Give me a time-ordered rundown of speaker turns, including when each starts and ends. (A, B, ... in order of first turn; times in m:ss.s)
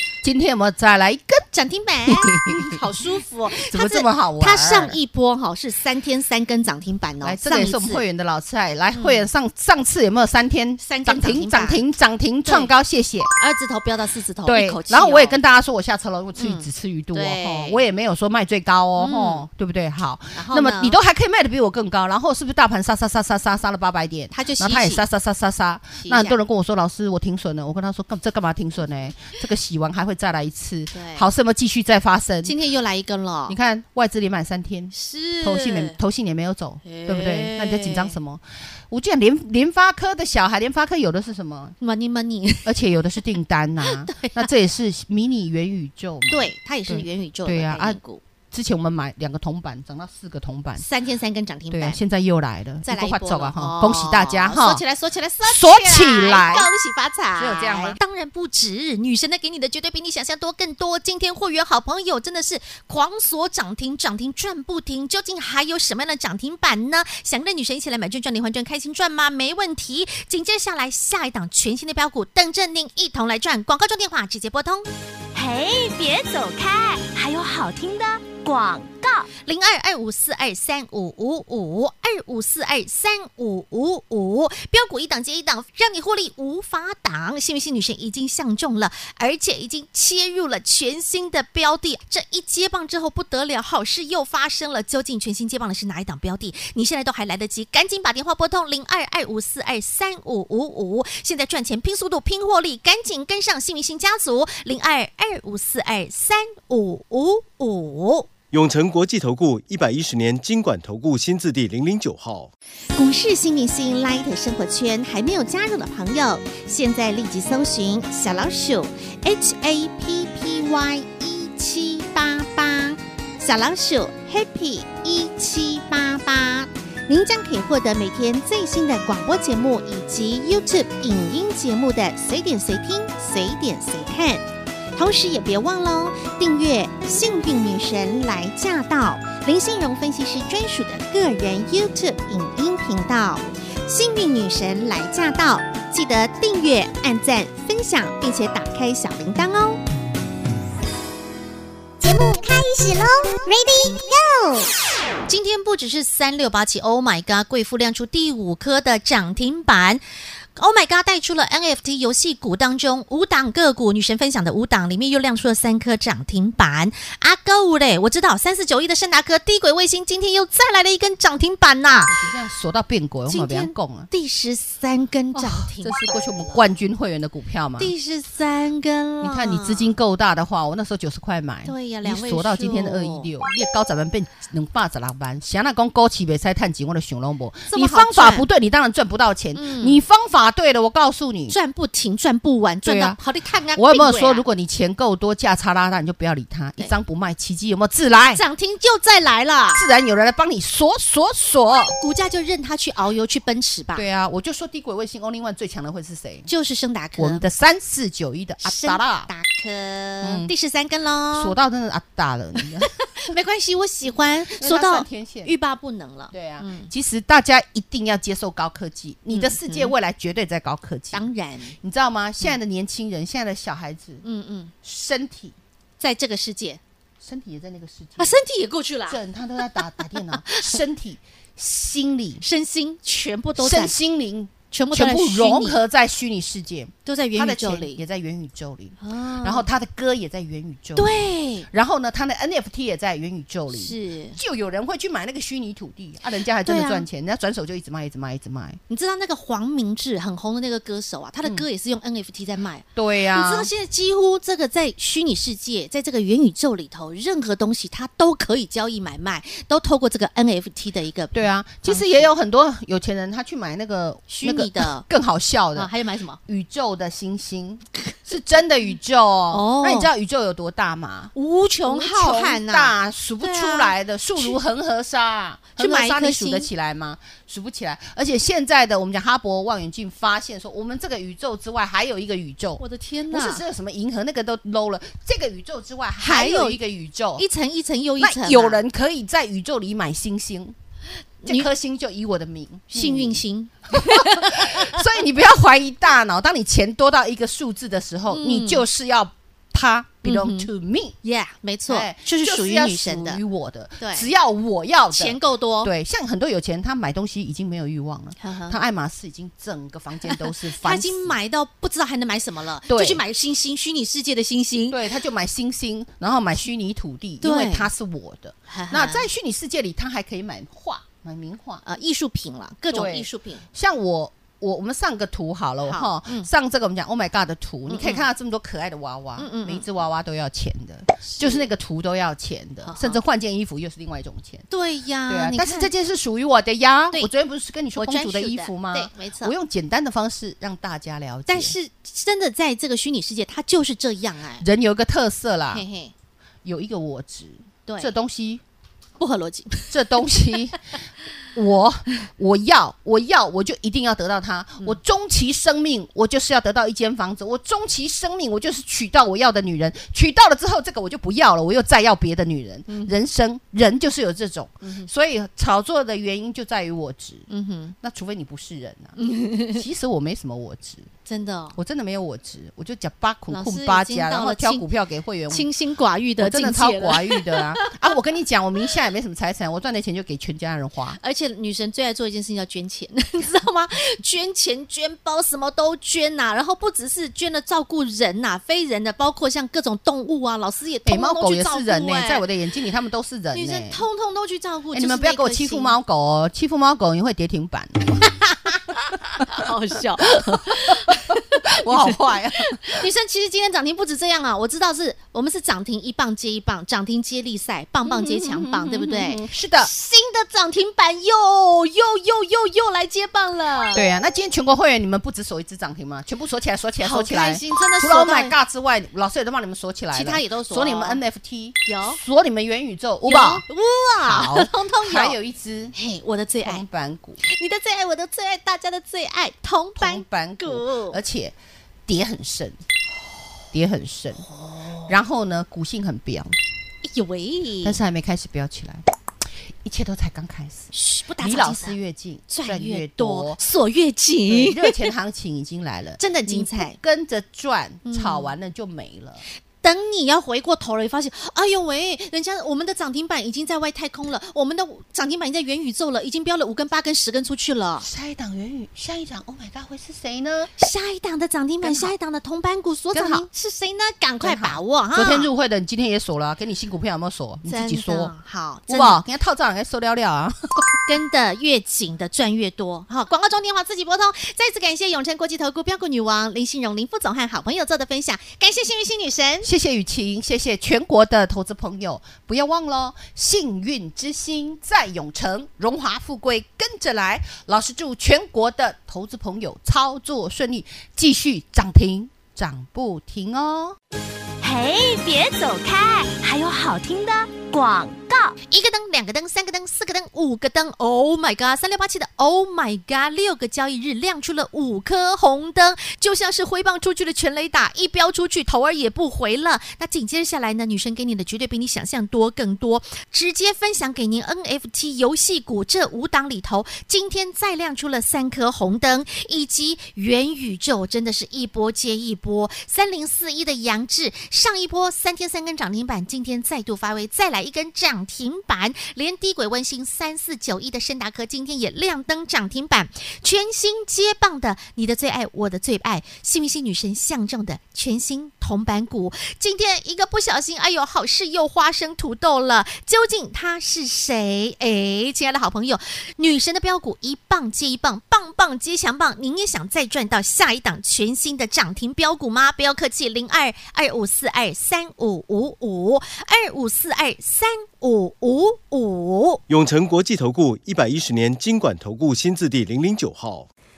0:00.2-0:01.4 A
0:01.5-0:08.0 B
0:02.1-0:02.8 A
0:03.5-0:05.0 A
0:07.2-0:13.3 A
0:08.9-0:09.3 B
0:10.8-0:11.8 B
0:12.4-0:12.7 B
0:13.4-0:15.4 B
0:14.4-0:32.5 A
0:16.4-0:17.8 B
0:19.0-0:19.4 B
0:20.3-0:21.0 B
0:24.3-0:25.0 B
0:26.0-0:26.4 B
0:30.9-0:31.3 B
0:32.4-0:33.6 B
0:33.5-0:41.8 A
0:34.9-0:36.0 B
0:36.8-0:38.2 B
0:41.8-0:42.7 B
0:42.6-0:48.0 A
0:43.8-0:44.5 B
0:46.3-0:48.2 B
0:48.5-0:50.8 A
0:50.8-0:52.0 B
0:51.7-0:54.8 A
0:52.8-1:14.9 B
0:55.4-0:56.7 A
0:57.4-0:58.0 A
1:15.3-1:19.3 C
1:19.4-1:48.3 B
1:48.5-1:52.5 D
1:52.9-2:14.4 B
2:14.9-2:29.8 B
2:35.3-2:40.0 B
2:40.6-2:52.2 B
2:52.1-2:54.1 A
2:53.3-2:56.7 B
2:55.3-2:57.9 A
2:57.8-3:00.0 B
2:59.2-3:11.6 A
3:01.6-3:03.3 B
3:07.7-3:08.5 B
3:09.5-3:10.0 B
3:11.5-3:14.4 B
3:12.8-3:13.2 A
3:13.8-3:18.4 A
3:18.3-3:19.8 B
3:19.7-3:22.0 A
3:22.0-3:24.0 B
3:23.9-3:26.5 A
3:26.4-3:27.4 B
3:27.2-3:29.3 A
3:28.6-3:31.5 B
3:30.2-3:30.5 A
3:31.3-3:32.9 A
3:32.6-3:36.9 B
3:34.6-3:35.5 A
3:36.3-3:41.2 A
3:39.3-3:39.9 B
3:41.1-3:41.8 B
3:41.8-3:44.2 A
3:44.2-3:44.7 B
3:44.8-3:45.6 A
3:46.0-3:46.8 B
3:47.2-3:48.4 A
3:48.2-3:50.8 B
3:49.1-3:52.4 A
3:52.4-3:53.9 B
3:53.6-4:01.1 A
3:54.7-3:55.8 B
3:57.0-3:58.0 B
3:59.0-3:59.7 B
4:01.0-4:01.7 B
4:01.7-4:08.8 A
4:03.7-4:04.4 B
4:06.6-4:07.0 B
4:08.9-4:22.3 B
4:13.0-4:13.7 A
4:21.3-4:25.9 A
4:24.3-4:25.0 B
4:25.7-4:26.4 B
4:26.5-4:31.3 A
4:29.5-4:30.1 B
4:31.3-4:34.6 B
4:31.8-4:47.4 A
4:35.8-4:36.7 B
4:42.8-4:43.6 B
4:46.2-4:46.8 B
4:47.4-4:48.8 B
4:48.2-4:50.7 A
4:51.4-4:51.7 B
4:51.4-5:01.2 A
4:52.9-4:55.0 B
4:58.3-4:58.8 B
5:00.2-5:00.7 B
5:01.2-5:03.4 B
5:01.9-5:11.3 A
5:04.0-5:04.3 B
5:05.1-5:05.9 B
5:08.4-5:08.8 B
5:10.2-5:15.0 B
5:12.9-5:13.2 A
5:14.9-5:21.8 A
5:17.4-5:17.9 B
5:18.7-5:19.3 B
5:21.8-5:23.6 B
5:22.9-5:34.6 A
5:25.8-5:26.5 B
5:27.9-5:28.2 B
5:29.4-5:29.8 B
5:31.2-5:31.7 B
5:32.8-5:33.2 B
5:34.7-5:35.9 B
5:35.3-5:41.7 A
5:38.0-5:39.5 B
5:41.5-5:44.6 B
5:44.6-5:45.8 A
5:45.7-5:46.1 B
5:46.6-5:48.6 A
5:47.8-5:48.1 B
5:49.2-5:49.9 B
5:49.9-5:50.9 A
5:51.5-6:07.4 A
6:02.9-6:03.1 B
6:04.8-6:05.1 B
6:07.5-6:07.9 B
6:08.0-6:09.2 A
6:09.2-6:09.8 B
6:09.7-6:11.1 A
6:11.3-6:11.8 B
6:11.7-6:15.7 A
6:13.5-6:14.8 B
6:15.5-6:18.0 B
6:16.4-6:21.2 A
6:21.2-6:32.4 B
6:31.0-6:34.0 A
6:33.5-6:35.9 B
6:34.9-6:38.3 A
6:38.2-6:42.1 B
6:40.4-6:43.0 A
6:42.8-6:54.1 B
6:48.0-6:49.9 A
6:53.9-7:03.6 A
6:57.0-6:58.5 B
7:00.1-7:01.2 B
7:01.8-7:02.2 B
7:03.2-7:05.4 B
7:04.2-7:05.9 A
7:05.9-7:06.8 B
7:06.6-7:07.4 A
7:07.4-7:11.2 B
7:10.0-7:11.6 A
7:12.1-7:12.8 A
7:13.7-7:14.4 A
7:14.4-7:15.1 B
7:15.1-7:16.6 A
7:17.0-7:18.0 B
7:17.8-7:19.0 A
7:19.8-7:23.6 A
7:20.9-7:21.9 B
7:22.5-7:25.1 B
7:24.5-7:29.4 A
7:26.2-7:27.0 B
7:28.0-7:28.5 B
7:29.8-7:38.1 B
7:38.0-7:40.7 A
7:40.8-7:45.5 B
7:41.8-7:42.1 A
7:43.1-7:43.5 A
7:44.4-7:48.3 A
7:47.6-7:49.2 B
7:48.9-7:51.0 A
7:51.1-7:59.7 B
7:59.6-8:14.0 A
8:14.6-8:18.5 C
8:18.7-9:19.6 B
9:19.7-9:23.7 D